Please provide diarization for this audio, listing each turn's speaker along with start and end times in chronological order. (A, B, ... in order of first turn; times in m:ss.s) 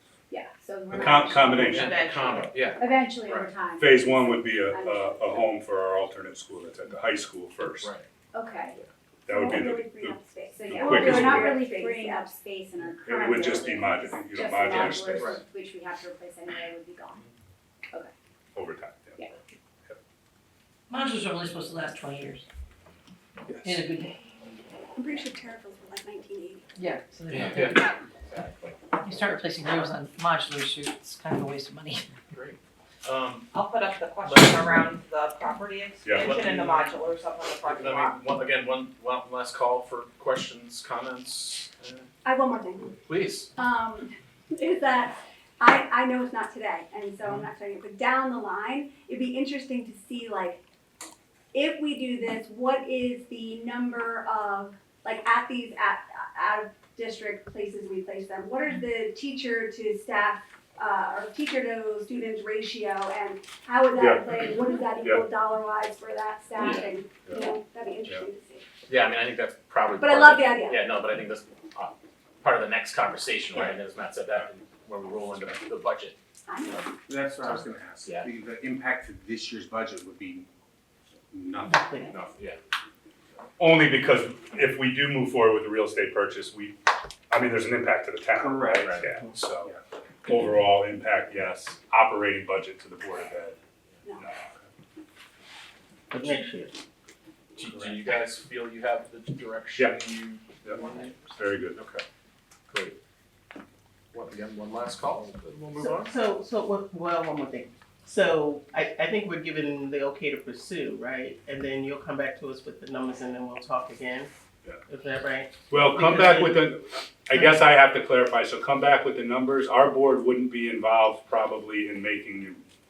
0:00.3-0:01.8 A
0:00.9-0:02.0 B
0:01.6-0:03.5 C
0:01.7-0:02.6 D
0:02.7-0:05.2 A
0:03.8-0:07.9 B
0:07.8-0:08.0 C
0:08.3-0:08.8 A
0:09.3-0:11.6 B
0:09.3-0:12.3 E
0:10.5-0:17.2 A
0:13.0-0:15.4 B
0:14.7-0:15.4 C
0:18.5-0:19.3 B
0:20.9-0:22.4 F
0:23.5-0:23.8 B
0:23.6-0:24.1 F
0:24.9-0:26.6 E
0:26.8-0:27.8 F
0:27.3-0:28.8 C
0:29.0-0:32.0 F
0:32.3-0:33.5 C
0:33.5-0:38.2 D
0:34.2-0:34.5 C
0:36.0-0:36.3 B
0:36.1-0:37.0 C
0:37.6-0:42.1 C
0:42.2-0:42.9 E
0:43.0-0:43.5 C
0:43.6-0:50.6 E
0:51.5-1:08.6 E
1:04.0-1:04.5 B
1:06.6-1:06.9 C
1:08.9-1:16.2 C
1:10.0-1:10.8 E
1:16.5-1:16.9 E
1:17.1-1:20.4 G
1:18.0-1:18.3 C
1:21.3-1:22.3 G
1:21.7-1:22.2 H
1:22.1-1:22.6 C
1:23.6-1:26.8 B
1:27.3-1:29.7 B
1:28.3-1:28.9 G
1:30.2-1:33.6 B
1:36.1-1:36.8 H
1:37.6-1:41.1 C
1:40.7-1:41.3 D
1:41.3-1:41.8 B
1:41.7-1:42.0 C
1:42.7-1:43.0 C
1:44.1-1:46.1 C
1:45.8-1:54.3 H
1:54.9-1:56.6 H
1:55.7-2:02.6 B